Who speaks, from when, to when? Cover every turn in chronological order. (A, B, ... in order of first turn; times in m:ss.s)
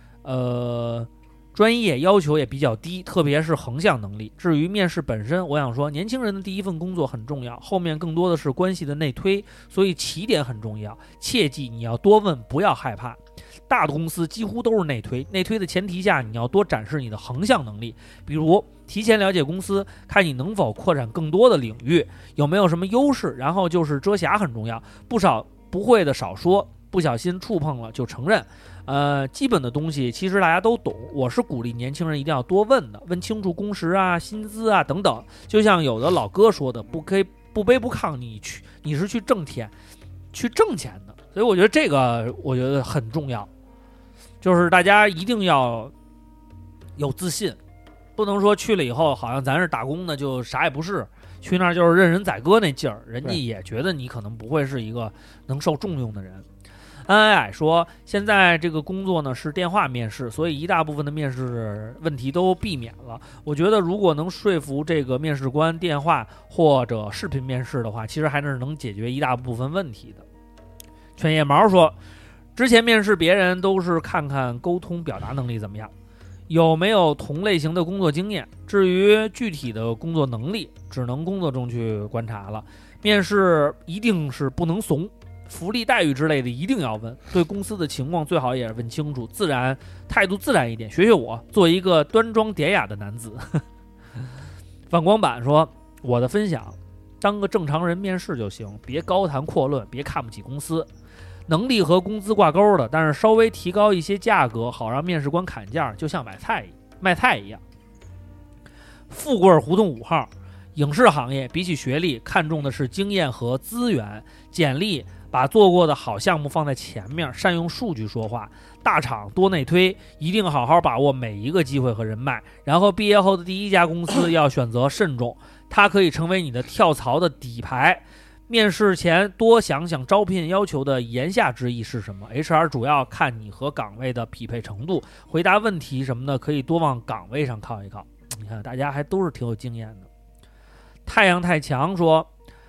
0:00.2-0:39.7 A
0:40.3-0:43.5 A
0:44.4-0:45.9 A
0:47.0-0:47.6 A
0:48.2-0:56.4 A
0:57.0-1:10.2 A
1:11.2-1:12.0 A
1:12.6-1:15.9 A
1:16.5-1:33.6 A
1:34.9-1:40.9 A
1:41.5-1:47.6 A
1:49.1-2:20.1 A
2:21.0-2:22.3 A